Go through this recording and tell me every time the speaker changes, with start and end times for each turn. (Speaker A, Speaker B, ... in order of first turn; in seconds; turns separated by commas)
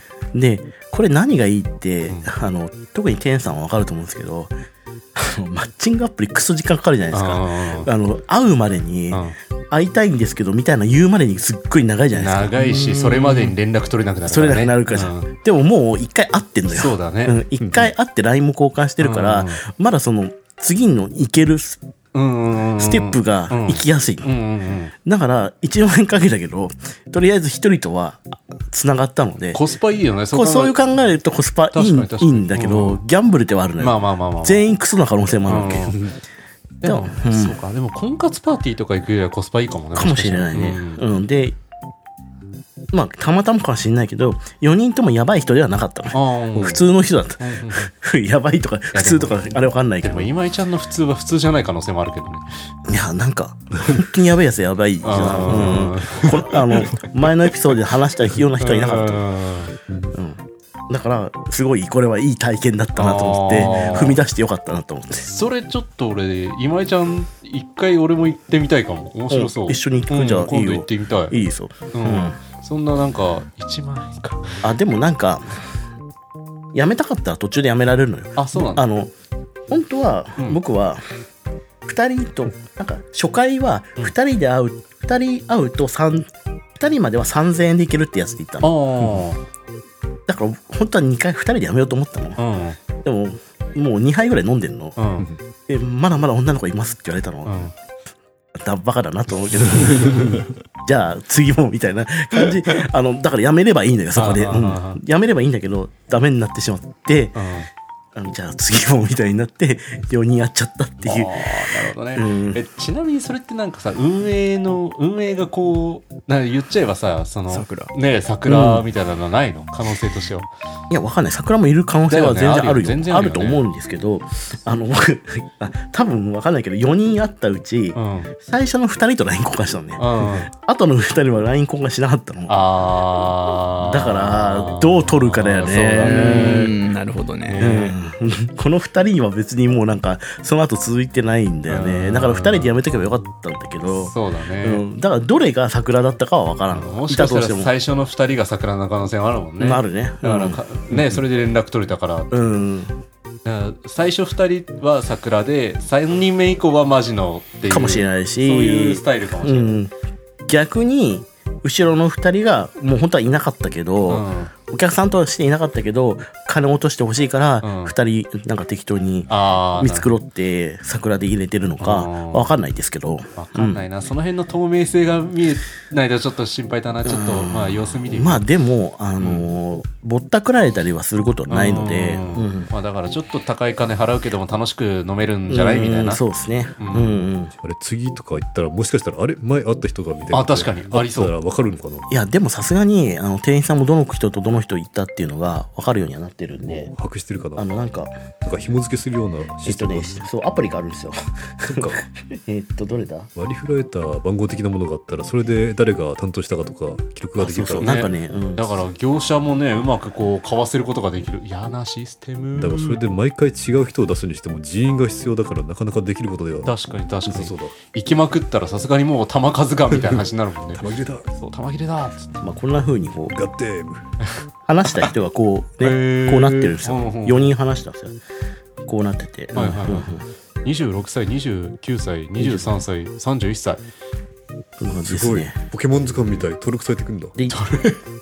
Speaker A: 0.3-4.5, Speaker A: 5.2-13.5, Speaker B: 7.1-7.9, Speaker B: 9.1-9.3, Speaker B: 12.2-15.3, Speaker A: 14.2-21.8, Speaker B: 16.7-17.4, Speaker C: 17.6-17.9, Speaker B: 19.0-19.6, Speaker B: 22.1-24.9, Speaker A: 22.8-24.3, Speaker A: 25.0-29.6, Speaker B: 29.5-30.8, Speaker A: 30.3-36.0, Speaker B: 31.7-33.0, Speaker B: 33.8-34.6, Speaker B: 35.5-36.0, Speaker B: 36.8-41.0, Speaker A: 36.8-37.6, Speaker A: 39.9-41.5, Speaker A: 42.9-50.3, Speaker B: 46.1-46.9, Speaker B: 47.4-47.9, Speaker B: 48.9-49.4, Speaker B: 50.0-52.5, Speaker A: 52.9-59.2, Speaker B: 55.0-56.9, Speaker B: 58.6-59.8, Speaker C: 59.9-60.1, Speaker A: 60.1-65.3, Speaker B: 63.0-64.2, Speaker B: 65.2-71.3, Speaker A: 69.3-72.4, Speaker B: 71.9-74.7, Speaker A: 74.6-75.6, Speaker A: 76.7-79.1, Speaker B: 78.4-78.8, Speaker A: 79.7-81.0, Speaker A: 81.8-88.7, Speaker B: 88.6-89.4, Speaker A: 90.3-92.4, Speaker B: 92.4-92.8, Speaker A: 93.0-95.0, Speaker B: 95.0-95.3, Speaker A: 95.7-97.7, Speaker B: 97.5-97.7, Speaker A: 98.5-107.4, Speaker B: 104.1-105.0, Speaker B: 107.3-107.7, Speaker A: 108.1-112.6, Speaker B: 111.0-120.5, Speaker D: 117.5-117.9, Speaker A: 118.5-118.8, Speaker A: 120.9-132.6, Speaker B: 122.1-123.6, Speaker B: 127.9-128.3, Speaker B: 130.0-130.5, Speaker B: 132.5-136.7, Speaker A: 133.2-136.7, Speaker D: 136.0-137.8, Speaker B: 137.4-137.9, Speaker A: 137.6-147.7, Speaker B: 141.7-142.7, Speaker B: 143.9-144.8, Speaker B: 146.7-152.5, Speaker A: 149.6-150.6, Speaker A: 152.3-153.0, Speaker B: 153.4-159.8, Speaker A: 157.7-159.9, Speaker A: 160.5-173.8, Speaker B: 164.1-164.5, Speaker B: 167.6-167.9, Speaker B: 169.3-170.1, Speaker B: 171.8-172.5, Speaker B: 173.3-178.4, Speaker A: 177.0-182.7, Speaker B: 179.2-179.5, Speaker B: 181.5-186.2, Speaker A: 185.5-187.5, Speaker B: 186.8-187.2, Speaker C: 187.6-192.1, Speaker B: 190.3-191.3, Speaker A: 192.1-196.9, Speaker C: 196.7-197.7, Speaker A: 197.6-198.1, Speaker C: 198.4-200.3, Speaker A: 199.6-203.3, Speaker C: 201.7-202.0, Speaker C: 203.3-208.0, Speaker A: 207.4-208.7, Speaker B: 207.8-213.0, Speaker C: 212.6-216.7, Speaker B: 216.6-222.4, Speaker C: 217.2-217.8, Speaker C: 219.9-220.2, Speaker C: 220.8-221.3, Speaker A: 222.4-223.3, Speaker C: 223.3-224.0, Speaker A: 224.7-228.2, Speaker B: 225.8-227.5, Speaker A: 228.8-230.2, Speaker B: 229.5-233.8, Speaker A: 232.4-232.8, Speaker A: 234.8-235.5, Speaker C: 235.0-237.3, Speaker A: 237.3-237.6, Speaker B: 237.5-238.0